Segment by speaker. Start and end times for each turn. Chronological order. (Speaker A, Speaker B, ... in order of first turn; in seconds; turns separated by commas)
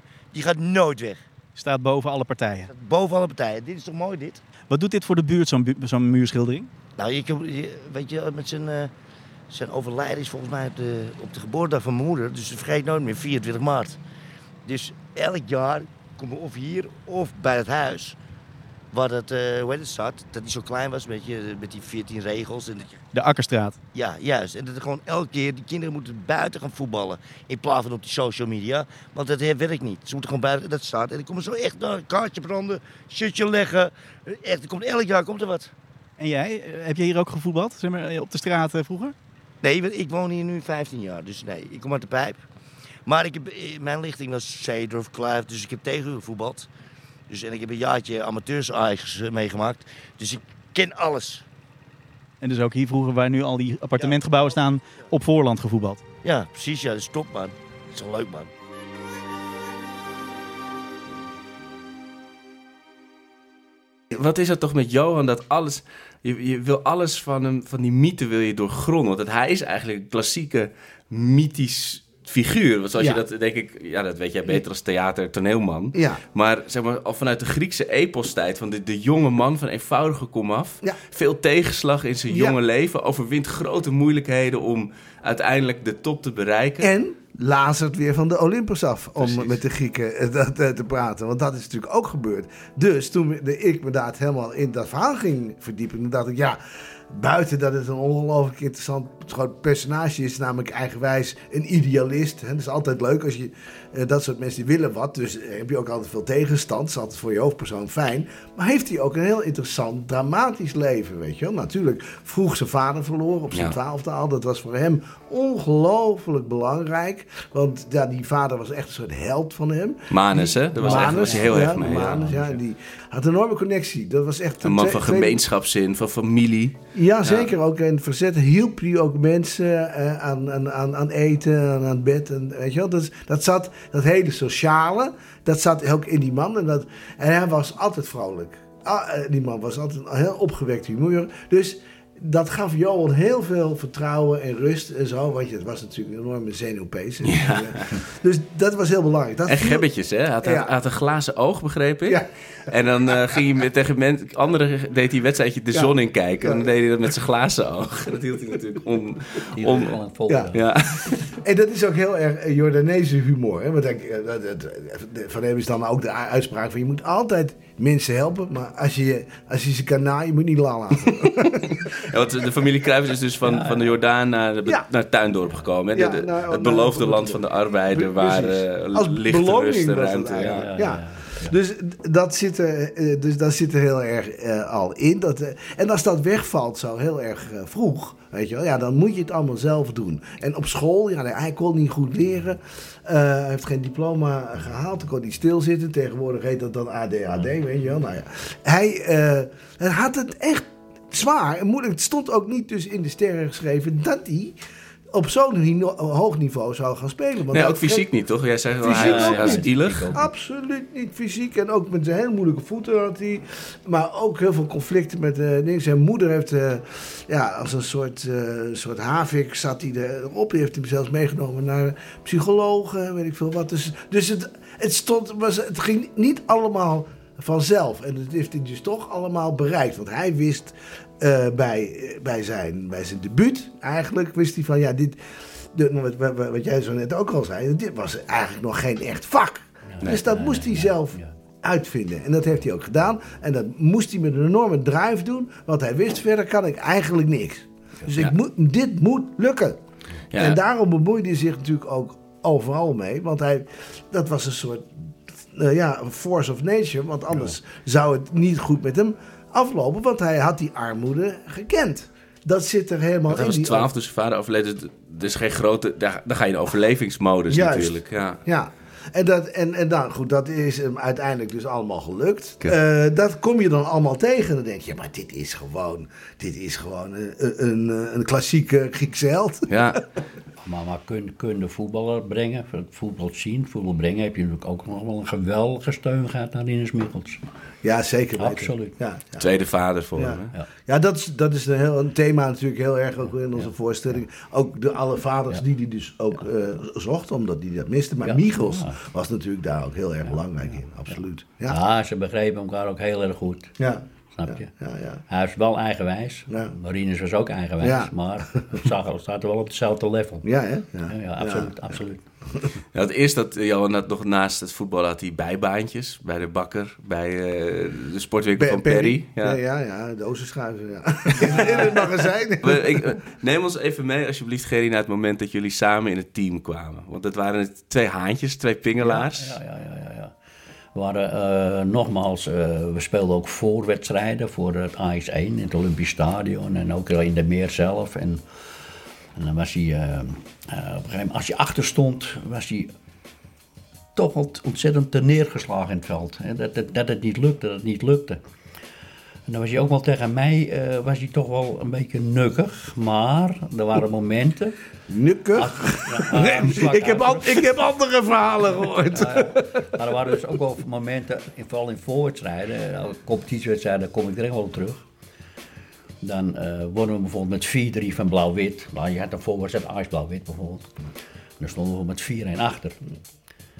Speaker A: 0.3-1.2, Speaker B: 1.6-2.7, Speaker A: 2.7-4.4, Speaker B: 4.7-6.7, Speaker A: 7.0-8.9, Speaker A: 9.5-14.0, Speaker A: 14.6-18.2, Speaker A: 18.9-23.0, Speaker B: 23.1-23.8, Speaker A: 23.9-35.7, Speaker B: 36.2-39.1, Speaker A: 39.6-42.4, Speaker A: 43.0-46.7, Speaker A: 47.3-51.5, Speaker B: 52.4-56.0, Speaker A: 56.2-58.5, Speaker C: 64.1-86.9, Speaker D: 73.0-73.2, Speaker D: 75.9-76.2, Speaker D: 82.3-82.6, Speaker D: 86.8-125.4, Speaker C: 89.2-89.6, Speaker C: 120.1-122.2, Speaker E: 120.8-122.6, Speaker C: 124.6-127.5, Speaker D: 126.9-149.8, Speaker C: 147.2-148.0, Speaker C: 149.4-159.9, Speaker D: 150.4-150.7, Speaker D: 155.7-156.7, Speaker E: 159.5-160.6, Speaker C: 160.5-161.2, Speaker D: 161.3-172.1, Speaker C: 171.7-180.7, Speaker E: 173.4-173.9, Speaker D: 175.9-204.6, Speaker E: 180.4-181.5, Speaker D: 205.1-208.1, Speaker C: 207.5-210.1, Speaker D: 208.8-249.8, Speaker E: 208.9-210.3, Speaker E: 239.9-241.3, Speaker C: 250.3-250.6, Speaker D: 250.3-263.9, Speaker C: 263.3-268.4, Speaker D: 267.5-280.0, Speaker C: 279.7-280.0, Speaker E: 280.6-287.4, Speaker D: 287.8-289.5, Speaker E: 288.4-288.9, Speaker C: 289.4-290.5, Speaker D: 290.1-301.8, Speaker E: 298.2-299.0, Speaker E: 301.7-303.8, Speaker D: 303.8-305.2, Speaker E: 304.3-304.7, Speaker E: 305.3-310.5, Speaker D: 306.5-306.7, Speaker D: 307.8-308.9, Speaker D: 310.4-311.9, Speaker E: 311.1-312.2, Speaker C: 312.9-319.6, Speaker D: 318.6-323.1, Speaker C: 321.5-321.9, Speaker C: 322.6-329.6, Speaker E: 329.0-330.3, Speaker E: 330.9-338.4, Speaker E: 339.3-342.9, Speaker E: 344.1-348.4, Speaker E: 349.5-354.8, Speaker D: 355.1-360.0, Speaker E: 355.6-357.6, Speaker E: 359.1-365.0, Speaker E: 366.2-370.9, Speaker E: 371.6-373.0